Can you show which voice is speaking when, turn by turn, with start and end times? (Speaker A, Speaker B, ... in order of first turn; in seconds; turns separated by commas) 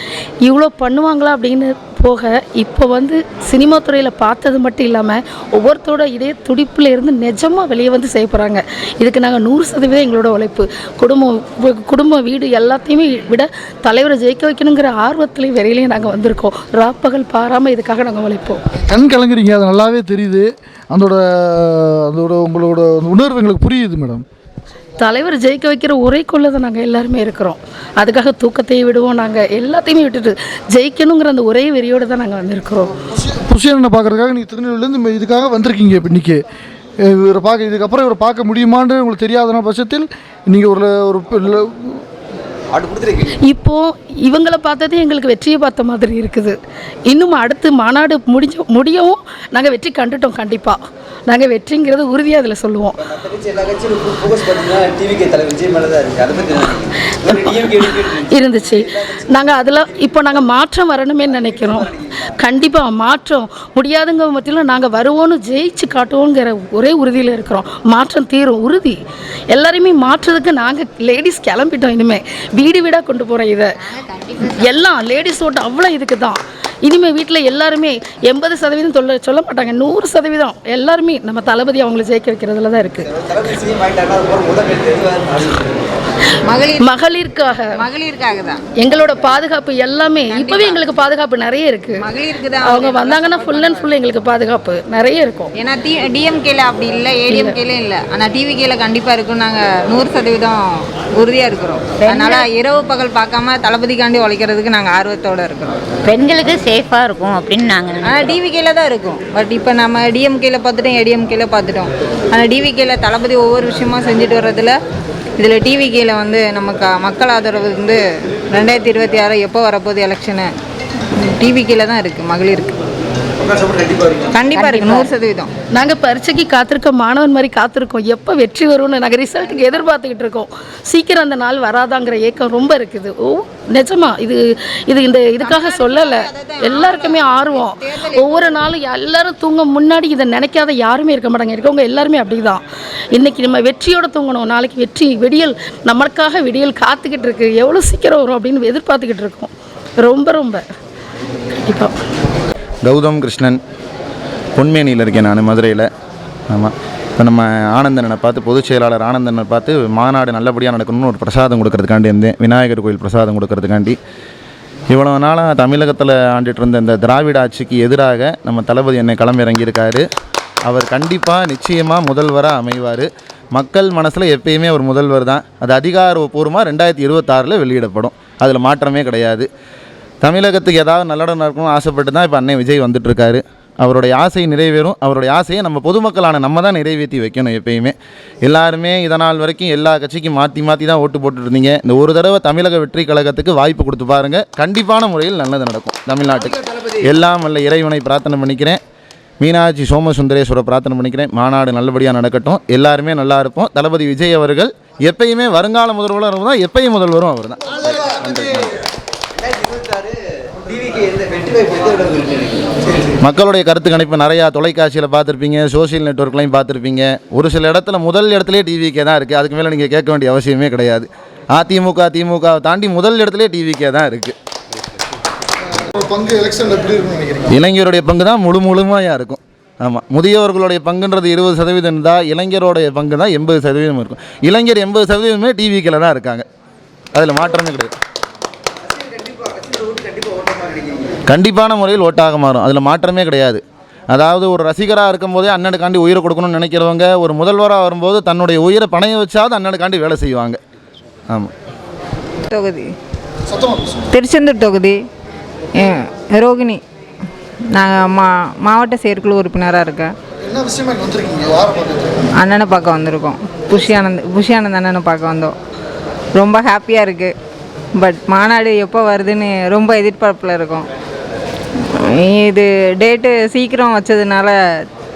Speaker A: 0.4-18.6, Speaker B: 18.8-24.2, Speaker A: 25.0-33.0, Speaker B: 33.1-36.4, Speaker B: 37.0-42.0, Speaker C: 42.9-43.3, Speaker A: 43.4-46.5, Speaker A: 47.1-53.0, Speaker C: 53.1-58.3, Speaker A: 57.2-73.8, Speaker A: 74.4-83.1, Speaker C: 83.2-85.7, Speaker D: 86.5-86.9, Speaker A: 86.8-87.8, Speaker D: 87.8-88.6, Speaker A: 88.8-92.0, Speaker D: 90.3-90.8, Speaker D: 92.0-93.8, Speaker A: 92.6-95.5, Speaker D: 95.6-105.8, Speaker A: 97.3-97.6, Speaker E: 102.0-102.5, Speaker E: 106.0-108.2, Speaker D: 108.0-114.8, Speaker D: 115.4-120.5, Speaker D: 121.2-122.8, Speaker D: 124.3-125.5, Speaker E: 124.5-125.1, Speaker A: 125.7-150.6, Speaker D: 135.4-138.6, Speaker A: 151.7-151.9, Speaker F: 152.8-153.6, Speaker F: 154.6-155.9, Speaker F: 156.5-164.0, Speaker F: 164.9-170.0, Speaker F: 170.7-179.5, Speaker F: 180.2-198.8, Speaker F: 199.4-208.8, Speaker C: 209.6-210.1, Speaker C: 210.8-213.1, Speaker F: 213.2-224.3, Speaker B: 225.7-227.5, Speaker F: 227.5-236.4, Speaker F: 237.1-237.9, Speaker C: 239.2-241.1, Speaker F: 241.3-250.6, Speaker D: 252.5-252.9, Speaker B: 253.5-254.1, Speaker D: 254.1-255.0, Speaker D: 255.8-256.8, Speaker D: 257.7-260.1, Speaker B: 260.4-262.3, Speaker D: 262.4-265.5, Speaker D: 266.4-267.3, Speaker D: 267.9-270.9, Speaker D: 271.9-274.6